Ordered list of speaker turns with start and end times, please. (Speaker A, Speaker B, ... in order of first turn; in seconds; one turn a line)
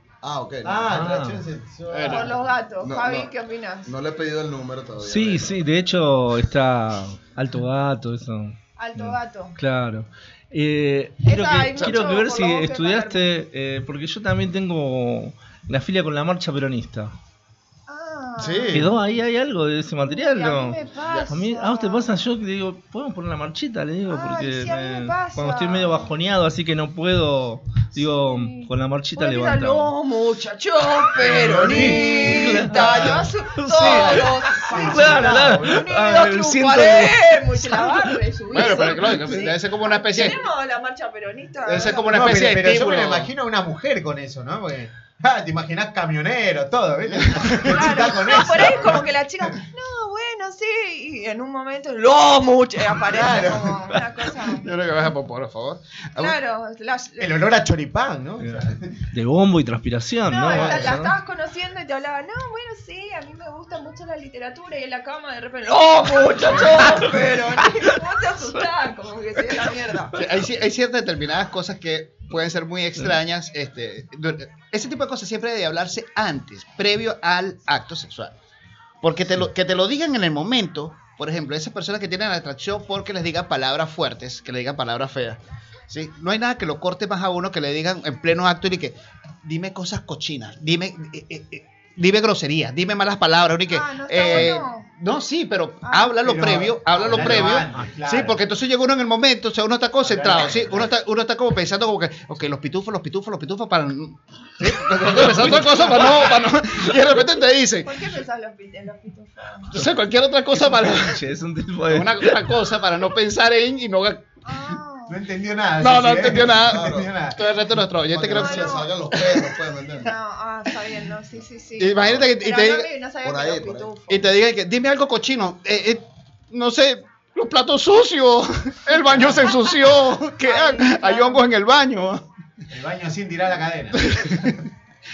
Speaker A: 0.2-0.9
Speaker B: 0.6-2.3
Speaker C: 0.9-1.4
Speaker D: 1.9-2.3
Speaker E: 2.1-3.9
Speaker A: 2.8-3.3
Speaker A: 3.9-5.6
Speaker C: 5.0-17.1
Speaker E: 8.8-9.6
Speaker E: 11.2-13.3
Speaker E: 17.9-18.9
Speaker D: 18.4-18.9
Speaker C: 18.7-20.8
Speaker E: 20.1-22.2
Speaker D: 21.0-21.3
Speaker C: 21.3-29.9
Speaker E: 24.1-26.1
Speaker E: 28.0-42.1
Speaker B: 31.2-35.9
Speaker C: 31.7-38.2
Speaker D: 38.5-40.4
Speaker D: 41.7-43.3
Speaker B: 41.9-49.1
Speaker D: 47.3-47.8
Speaker E: 47.6-54.7
Speaker B: 53.0-53.8
Speaker D: 54.6-56.4
Speaker E: 56.2-57.4
Speaker B: 57.2-58.9
Speaker C: 58.4-61.1
Speaker E: 60.3-70.2
Speaker B: 60.5-60.8
Speaker C: 66.5-67.2
Speaker D: 70.2-78.3
Speaker D: 79.0-107.9
Speaker E: 93.7-94.9
Speaker E: 95.8-96.2
Speaker B: 96.2-98.4
Speaker C: 97.2-97.9
Speaker B: 100.0-100.9
Speaker C: 105.1-106.0
Speaker E: 107.8-109.8
Speaker D: 109.7-111.2
Speaker C: 110.5-112.5
Speaker D: 111.9-114.4
Speaker E: 114.4-115.2
Speaker B: 115.1-117.4
Speaker D: 115.8-119.5
Speaker A: 116.5-117.1
Speaker A: 118.1-120.1
Speaker E: 118.3-119.0
Speaker E: 120.0-124.2
Speaker D: 121.8-122.9
Speaker A: 123.2-124.0
Speaker D: 124.1-132.2
Speaker E: 130.4-131.4
Speaker B: 132.7-134.6
Speaker D: 134.0-134.6